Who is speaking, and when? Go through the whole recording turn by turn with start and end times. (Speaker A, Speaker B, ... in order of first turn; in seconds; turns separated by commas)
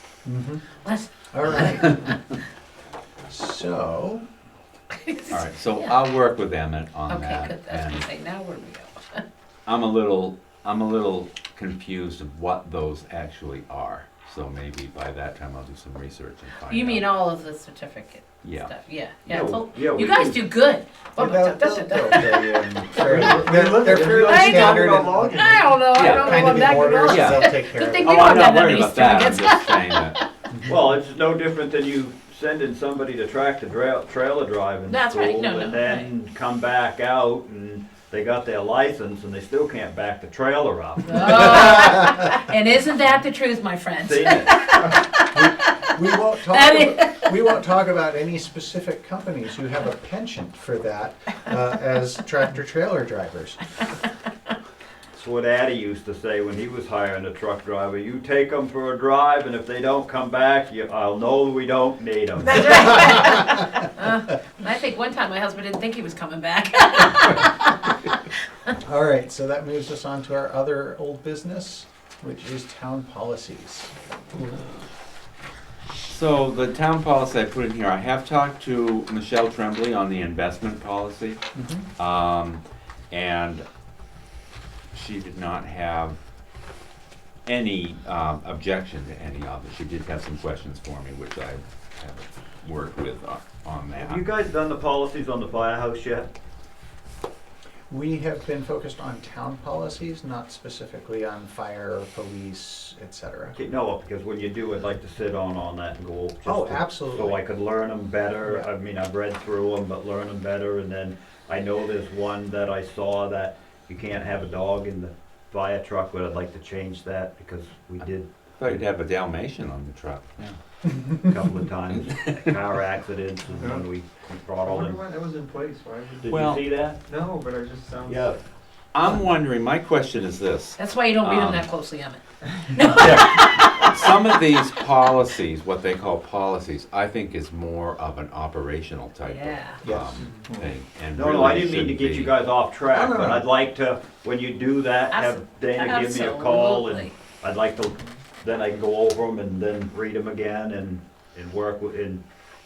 Speaker A: 0.2-0.6, Speaker B: 0.8-1.7, Speaker A: 1.3-2.1, Speaker A: 3.3-4.2, Speaker B: 5.0-6.0, Speaker C: 5.3-8.1, Speaker B: 7.1-9.2, Speaker C: 9.7-17.2, Speaker B: 16.6-23.1, Speaker C: 18.4-18.7, Speaker D: 19.3-20.4, Speaker A: 21.1-28.5, Speaker E: 23.0-26.9, Speaker B: 24.2-30.2, Speaker C: 25.9-30.2, Speaker A: 30.5-30.8, Speaker D: 30.6-41.9, Speaker B: 34.9-36.1, Speaker B: 41.0-47.4, Speaker D: 44.0-44.6, Speaker A: 45.3-53.6, Speaker D: 55.1-62.9, Speaker B: 62.4-68.0, Speaker A: 68.8-74.5, Speaker C: 76.1-81.4, Speaker A: 81.5-81.9, Speaker C: 82.0-83.6, Speaker C: 84.9-86.2, Speaker C: 87.5-94.2, Speaker D: 93.9-96.3, Speaker A: 97.9-103.5, Speaker D: 103.5-118.8, Speaker A: 106.4-107.4, Speaker C: 118.6-120.5, Speaker D: 121.1-125.0, Speaker C: 122.1-122.5, Speaker E: 123.5-123.8, Speaker E: 124.6-126.3, Speaker D: 126.2-127.0, Speaker C: 126.3-126.6, Speaker E: 127.0-128.3, Speaker D: 128.1-128.4, Speaker C: 128.9-131.7, Speaker B: 130.8-133.8, Speaker C: 133.6-142.4, Speaker B: 139.2-139.8, Speaker A: 139.8-140.3, Speaker E: 140.2-140.8, Speaker D: 141.1-152.2, Speaker B: 145.1-147.1